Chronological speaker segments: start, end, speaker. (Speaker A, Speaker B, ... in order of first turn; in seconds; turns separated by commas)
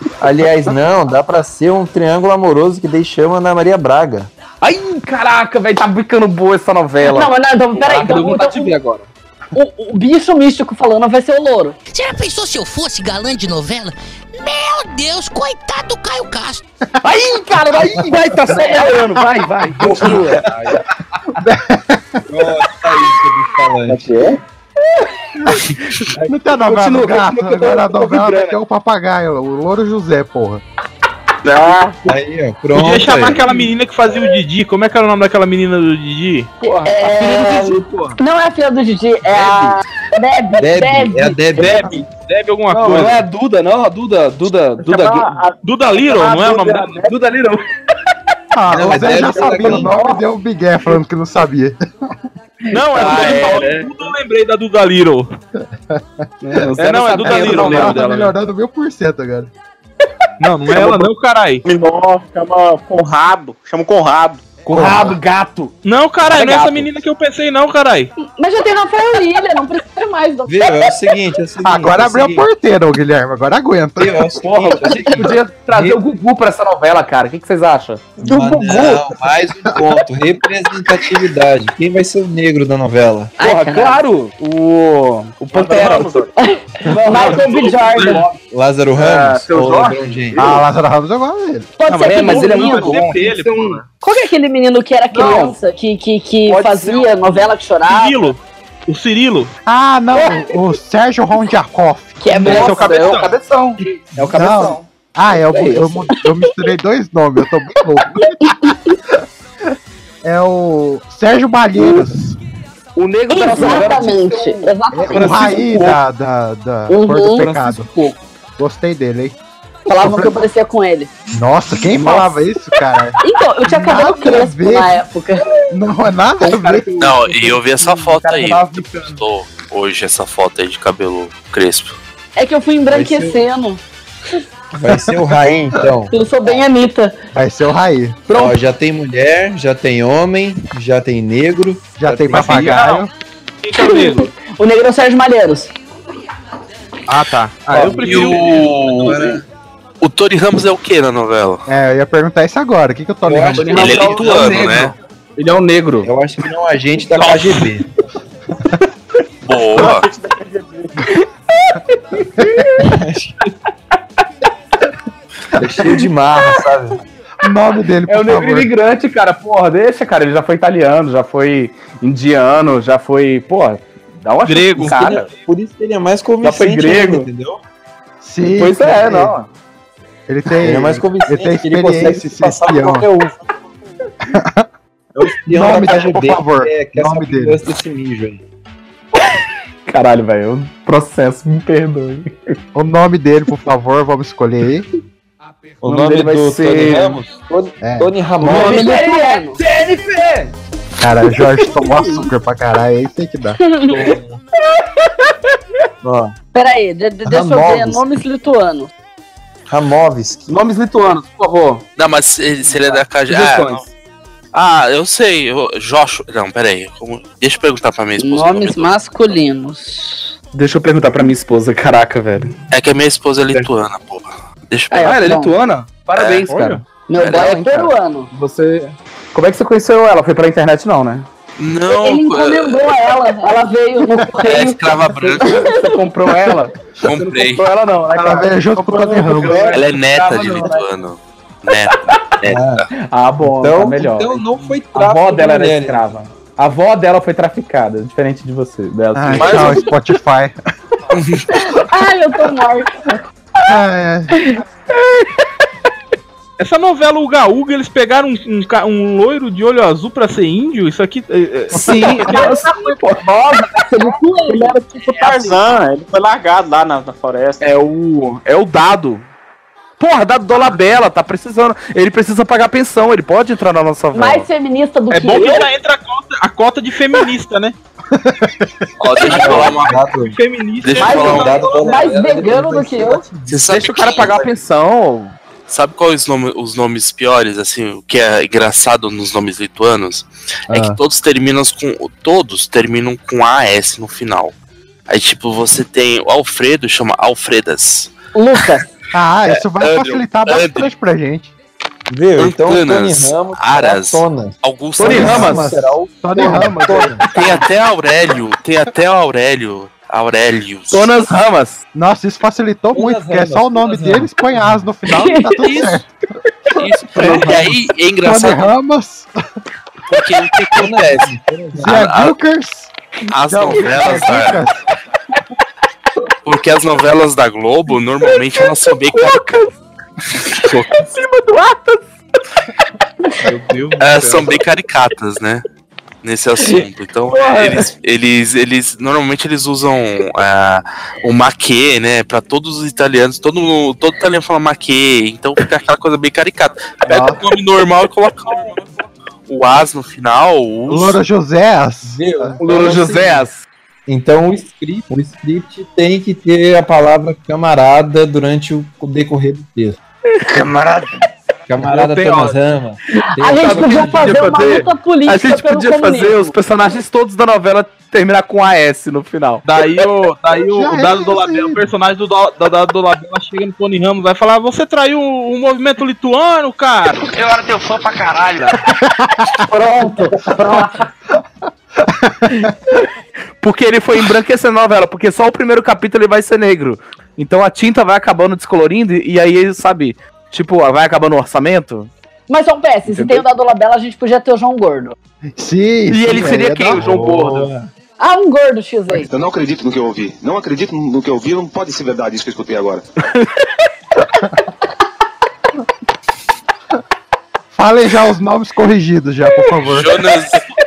Speaker A: 0.2-4.3, Speaker B: 4.6-9.1, Speaker C: 7.0-8.7, Speaker C: 9.5-11.8, Speaker D: 11.9-16.6, Speaker B: 17.0-20.8, Speaker E: 17.7-18.2, Speaker C: 18.5-18.9, Speaker E: 19.8-20.2, Speaker A: 19.8-20.6, Speaker E: 21.4-22.2, Speaker A: 22.3-24.1, Speaker B: 23.9-24.4, Speaker B: 26.1-28.6, Speaker E: 26.2-30.6, Speaker B: 31.4-32.0, Speaker A: 32.0-33.4, Speaker F: 32.7-36.5, Speaker B: 33.2-33.7, Speaker B: 36.6-38.2, Speaker C: 36.8-41.6, Speaker B: 39.3-39.7, Speaker A: 40.6-41.9, Speaker F: 41.6-43.2, Speaker B: 41.6-41.9, Speaker B: 42.7-45.4, Speaker F: 44.8-47.1, Speaker G: 45.2-45.6, Speaker B: 45.9-47.6, Speaker E: 48.5-51.8, Speaker A: 48.7-50.0, Speaker B: 49.3-50.2, Speaker F: 52.7-55.3, Speaker B: 52.7-54.1, Speaker E: 55.6-56.6, Speaker B: 56.4-58.1, Speaker F: 56.8-58.3, Speaker E: 57.2-59.5, Speaker F: 60.4-61.6, Speaker G: 61.6-64.5, Speaker B: 64.7-66.9, Speaker E: 64.7-65.2, Speaker F: 65.8-68.1, Speaker C: 68.2-71.0, Speaker A: 70.5-72.5, Speaker E: 71.6-74.3, Speaker A: 74.0-76.0, Speaker B: 74.4-78.2, Speaker A: 78.2-83.3, Speaker B: 83.4-86.3, Speaker C: 83.4-84.0, Speaker F: 85.5-86.2, Speaker C: 86.4-88.2, Speaker B: 86.8-88.4, Speaker F: 87.0-88.2, Speaker A: 88.5-90.6, Speaker B: 88.9-90.6, Speaker E: 90.3-91.7, Speaker C: 91.8-93.0, Speaker F: 91.9-93.8, Speaker B: 91.9-93.8, Speaker C: 94.0-98.3, Speaker B: 95.1-95.6, Speaker B: 96.5-97.1, Speaker F: 97.8-99.5, Speaker E: 99.7-102.2, Speaker C: 102.2-103.1, Speaker B: 102.3-104.8, Speaker F: 102.3-103.4, Speaker E: 104.2-108.7, Speaker B: 105.5-105.9, Speaker C: 108.4-108.9, Speaker E: 110.2-112.4, Speaker B: 113.0-116.0, Speaker C: 113.3-115.5, Speaker E: 114.9-117.9, Speaker C: 116.9-117.5, Speaker B: 117.3-118.2, Speaker E: 118.6-119.3, Speaker C: 119.9-121.1, Speaker E: 120.0-120.3, Speaker E: 121.3-125.0, Speaker B: 121.9-122.3, Speaker C: 123.2-125.4, Speaker E: 125.7-126.9, Speaker B: 126.4-129.2, Speaker H: 127.0-132.0, Speaker C: 132.3-133.8, Speaker A: 132.9-133.4, Speaker A: 134.7-136.1, Speaker E: 134.8-135.1, Speaker C: 136.1-137.2, Speaker E: 137.3-138.2, Speaker A: 138.3-142.9, Speaker E: 142.0-143.1, Speaker F: 142.3-143.1, Speaker F: 143.6-144.3, Speaker C: 143.7-145.7, Speaker F: 147.1-148.7, Speaker A: 147.7-149.4, Speaker H: 147.9-149.4, Speaker H: 150.0-151.6, Speaker E: 151.7-154.2, Speaker A: 153.2-154.9, Speaker B: 153.6-156.1, Speaker H: 153.7-154.9, Speaker A: 156.0-157.8, Speaker H: 159.4-160.1, Speaker G: 159.8-160.9, Speaker B: 161.9-162.8, Speaker A: 162.8-163.3, Speaker A: 165.6-167.0, Speaker E: 167.4-168.7, Speaker B: 168.1-175.3, Speaker F: 174.4-175.1, Speaker A: 174.8-177.6, Speaker B: 176.4-177.3, Speaker E: 178.2-179.3, Speaker B: 178.5-179.5, Speaker E: 180.3-183.1, Speaker A: 180.6-183.3, Speaker E: 184.2-184.7, Speaker A: 185.1-188.4, Speaker E: 185.4-187.6, Speaker B: 189.9-192.3, Speaker E: 192.7-194.9, Speaker A: 195.8-198.9, Speaker B: 195.8-197.2, Speaker E: 197.8-198.1, Speaker B: 198.4-200.5, Speaker C: 198.5-199.6, Speaker E: 201.0-203.6, Speaker C: 203.6-204.1, Speaker B: 203.9-204.2, Speaker A: 206.0-206.3, Speaker C: 206.5-208.9, Speaker A: 207.2-208.0, Speaker A: 209.7-210.5, Speaker B: 210.5-211.8, Speaker H: 212.0-213.8, Speaker B: 212.7-213.9, Speaker H: 214.5-218.9, Speaker C: 218.2-220.3, Speaker B: 220.5-222.5, Speaker H: 222.7-225.1, Speaker C: 224.9-225.5, Speaker B: 225.0-231.3, Speaker H: 226.1-226.5, Speaker F: 226.5-226.8, Speaker C: 227.1-228.3, Speaker H: 227.2-227.5, Speaker H: 231.6-232.9, Speaker C: 231.9-234.8, Speaker H: 234.4-235.7, Speaker B: 235.2-240.9, Speaker C: 235.4-235.9, Speaker H: 237.0-237.6, Speaker E: 238.1-239.8, Speaker H: 239.7-242.8, Speaker A: 242.4-242.9, Speaker B: 242.9-249.9, Speaker A: 243.4-246.1, Speaker E: 249.1-250.6, Speaker H: 249.4-249.9, Speaker H: 251.1-251.5, Speaker C: 251.5-252.9, Speaker E: 253.7-254.4, Speaker F: 256.6-262.8, Speaker B: 261.7-263.8, Speaker C: 262.2-262.9, Speaker C: 263.6-265.0, Speaker G: 265.1-267.6, Speaker B: 267.6-269.2, Speaker B: 270.0-274.5, Speaker C: 274.1-275.7, Speaker F: 275.1-277.7, Speaker E: 278.1-278.7, Speaker H: 279.0-280.0, Speaker A: 279.2-280.4, Speaker F: 279.2-282.1, Speaker H: 280.8-281.8, Speaker C: 281.0-283.2, Speaker A: 281.0-284.5, Speaker H: 283.5-284.4, Speaker B: 283.6-285.3, Speaker H: 285.7-294.5, Speaker E: 290.7-291.0, Speaker H: 295.1-298.1, Speaker C: 298.3-298.9, Speaker E: 299.1-301.5, Speaker H: 299.5-300.9, Speaker A: 302.1-307.3, Speaker H: 302.4-305.6, Speaker B: 305.0-305.8, Speaker E: 305.0-307.2, Speaker H: 307.3-311.1, Speaker B: 310.9-311.8, Speaker E: 311.9-316.0, Speaker A: 312.9-314.8, Speaker C: 315.1-315.6, Speaker H: 315.6-316.0, Speaker H: 316.7-318.7, Speaker E: 317.1-317.7, Speaker B: 317.2-317.5, Speaker E: 318.2-319.3, Speaker H: 320.1-322.4, Speaker A: 320.7-322.0, Speaker E: 321.8-322.9, Speaker H: 323.3-324.6, Speaker E: 323.5-324.8, Speaker H: 326.4-329.5, Speaker B: 328.2-329.7, Speaker B: 330.6-332.0, Speaker F: 333.4-334.6, Speaker H: 334.0-335.6, Speaker H: 336.2-348.8, Speaker B: 337.3-337.9, Speaker E: 347.1-347.4, Speaker H: 349.5-351.2, Speaker E: 350.9-352.6, Speaker A: 352.0-353.5, Speaker B: 352.6-353.6, Speaker A: 354.1-360.0, Speaker B: 360.4-360.6, Speaker A: 361.7-364.8, Speaker B: 361.8-362.6, Speaker C: 363.1-366.5, Speaker B: 363.6-369.6, Speaker F: 369.6-377.4, Speaker E: 370.7-371.9, Speaker E: 378.9-379.5, Speaker C: 379.7-381.1, Speaker E: 382.0-382.7, Speaker B: 383.6-392.1, Speaker C: 392.5-395.1, Speaker B: 393.1-393.4, Speaker E: 395.5-397.0, Speaker B: 396.1-397.7, Speaker A: 396.9-397.9, Speaker C: 398.2-399.3, Speaker I: 399.3-403.0, Speaker E: 407.7-410.1, Speaker H: 409.9-410.6